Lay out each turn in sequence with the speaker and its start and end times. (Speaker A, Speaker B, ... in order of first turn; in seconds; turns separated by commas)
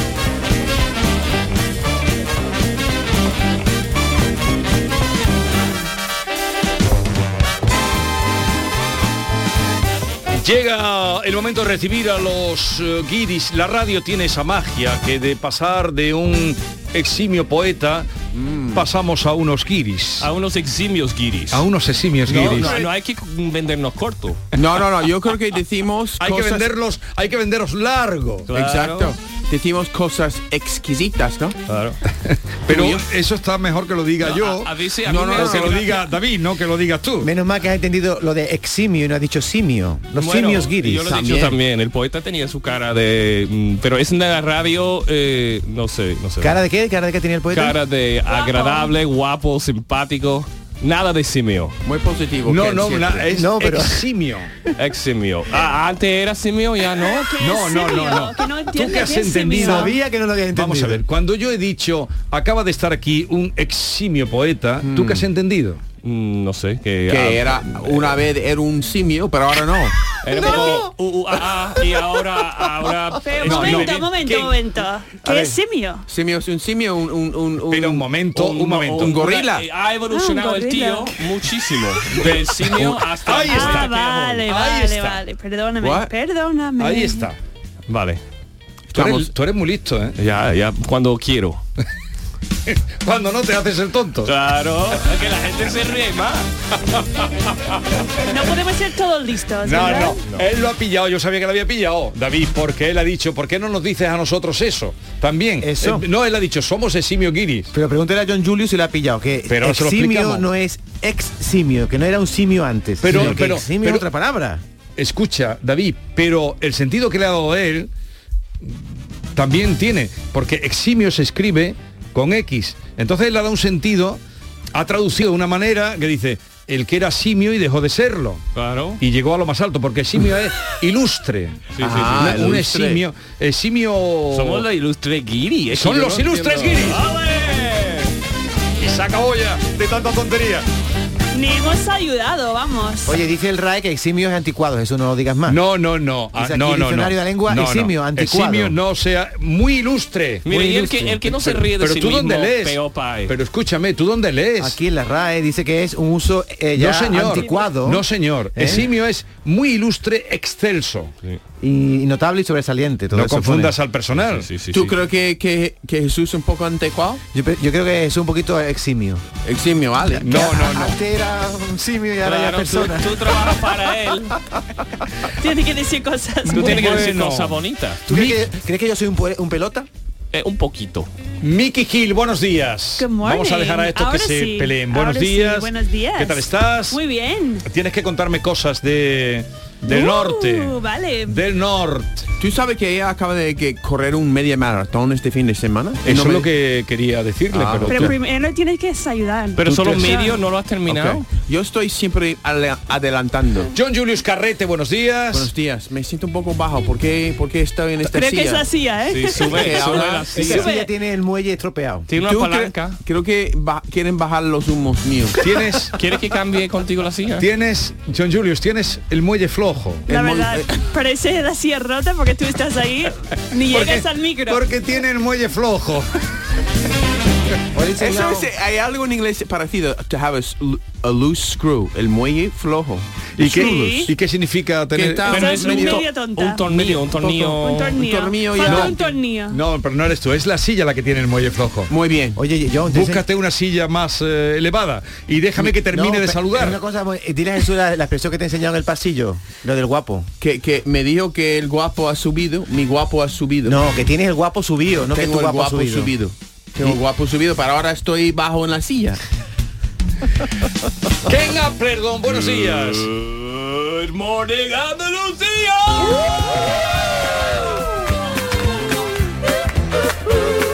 Speaker A: 10.3-18.1, Speaker B: 18.3-18.9, Speaker A: 18.7-20.3, Speaker C: 20.2-21.6, Speaker A: 21.5-22.8, Speaker C: 22.3-24.4, Speaker B: 22.5-22.8, Speaker B: 24.6-26.7, Speaker A: 26.2-28.5, Speaker C: 28.5-29.1, Speaker B: 28.5-31.6, Speaker C: 31.7-32.0, Speaker A: 32.2-37.3, Speaker C: 32.7-33.0, Speaker C: 34.2-36.1, Speaker B: 35.1-35.9, Speaker D: 37.2-41.1, Speaker C: 40.1-46.6, Speaker B: 41.1-41.6, Speaker D: 46.4-47.8, Speaker C: 47.5-51.7, Speaker E: 48.3-48.9, Speaker B: 51.8-53.3, Speaker A: 52.5-54.5, Speaker D: 53.3-54.0, Speaker C: 54.8-57.4, Speaker E: 57.0-59.9, Speaker A: 57.4-59.9, Speaker D: 59.6-61.0, Speaker A: 60.5-65.8, Speaker B: 64.8-65.3, Speaker C: 66.0-68.2, Speaker B: 67.1-69.9, Speaker C: 70.2-74.4, Speaker E: 73.2-76.0, Speaker A: 73.4-74.5, Speaker B: 75.2-75.5, Speaker B: 76.1-78.1, Speaker A: 77.7-79.2, Speaker C: 78.3-84.5, Speaker B: 79.0-79.6, Speaker E: 80.1-81.1, Speaker A: 83.2-83.9, Speaker E: 83.4-87.3, Speaker A: 84.4-85.2, Speaker B: 85.8-86.1, Speaker A: 86.8-87.4, Speaker C: 87.9-88.2, Speaker B: 88.9-89.3, Speaker A: 88.9-90.2, Speaker C: 90.2-91.6, Speaker A: 92.7-94.3, Speaker C: 94.2-96.5, Speaker E: 98.3-100.2, Speaker A: 99.6-107.7, Speaker D: 105.6-106.0, Speaker D: 107.7-114.6, Speaker A: 109.5-110.5, Speaker A: 113.0-114.0, Speaker B: 113.1-113.4, Speaker A: 115.0-117.9, Speaker A: 118.6-124.2, Speaker A: 124.7-128.4, Speaker C: 128.6-129.0, Speaker A: 129.0-134.6, Speaker C: 131.7-132.6, Speaker B: 131.8-133.0, Speaker C: 134.3-137.4, Speaker A: 135.7-138.1, Speaker A: 138.8-140.7, Speaker E: 141.3-143.2, Speaker D: 143.0-145.6, Speaker A: 145.5-154.8, Speaker D: 146.3-148.8, Speaker C: 150.4-153.3, Speaker D: 154.6-158.0, Speaker A: 156.8-161.1, Speaker D: 158.5-158.9, Speaker D: 161.6-163.8, Speaker A: 163.1-164.5, Speaker C: 164.1-164.9, Speaker B: 164.7-167.2, Speaker D: 167.3-169.2, Speaker B: 169.4-170.4, Speaker A: 170.2-171.0, Speaker D: 170.2-173.3, Speaker C: 172.2-174.3, Speaker E: 175.4-177.1, Speaker A: 176.5-177.6, Speaker C: 176.5-178.3, Speaker D: 178.1-179.9, Speaker C: 180.3-181.1, Speaker A: 181.4-187.0, Speaker E: 183.0-187.7, Speaker A: 187.7-192.1, Speaker E: 189.8-191.4, Speaker B: 192.4-196.5, Speaker A: 196.0-198.1, Speaker B: 197.5-198.1, Speaker E: 197.9-200.4, Speaker C: 199.6-201.3, Speaker B: 200.9-203.7, Speaker A: 203.7-205.5, Speaker B: 205.3-208.6, Speaker E: 208.0-210.9, Speaker C: 209.1-210.7, Speaker B: 209.5-210.4, Speaker D: 210.3-212.1, Speaker C: 212.1-213.0, Speaker B: 212.2-215.4, Speaker A: 215.4-215.9, Speaker C: 215.9-217.4, Speaker A: 217.4-220.1, Speaker E: 220.1-224.7, Speaker B: 220.1-220.8, Speaker A: 223.7-226.1, Speaker D: 227.7-228.5, Speaker B: 228.0-233.1, Speaker A: 233.4-235.2, Speaker E: 233.4-234.1, Speaker B: 233.7-233.9, Speaker B: 234.9-236.0, Speaker C: 235.2-238.0, Speaker E: 235.3-236.7, Speaker B: 236.8-239.0, Speaker E: 237.6-239.6, Speaker A: 238.7-238.9, Speaker A: 239.5-241.9, Speaker B: 241.9-242.4, Speaker D: 242.3-243.2, Speaker A: 242.9-246.8, Speaker D: 245.6-250.3, Speaker B: 250.4-253.8, Speaker D: 253.6-256.1, Speaker B: 255.1-259.2, Speaker A: 261.2-263.1, Speaker C: 262.7-266.2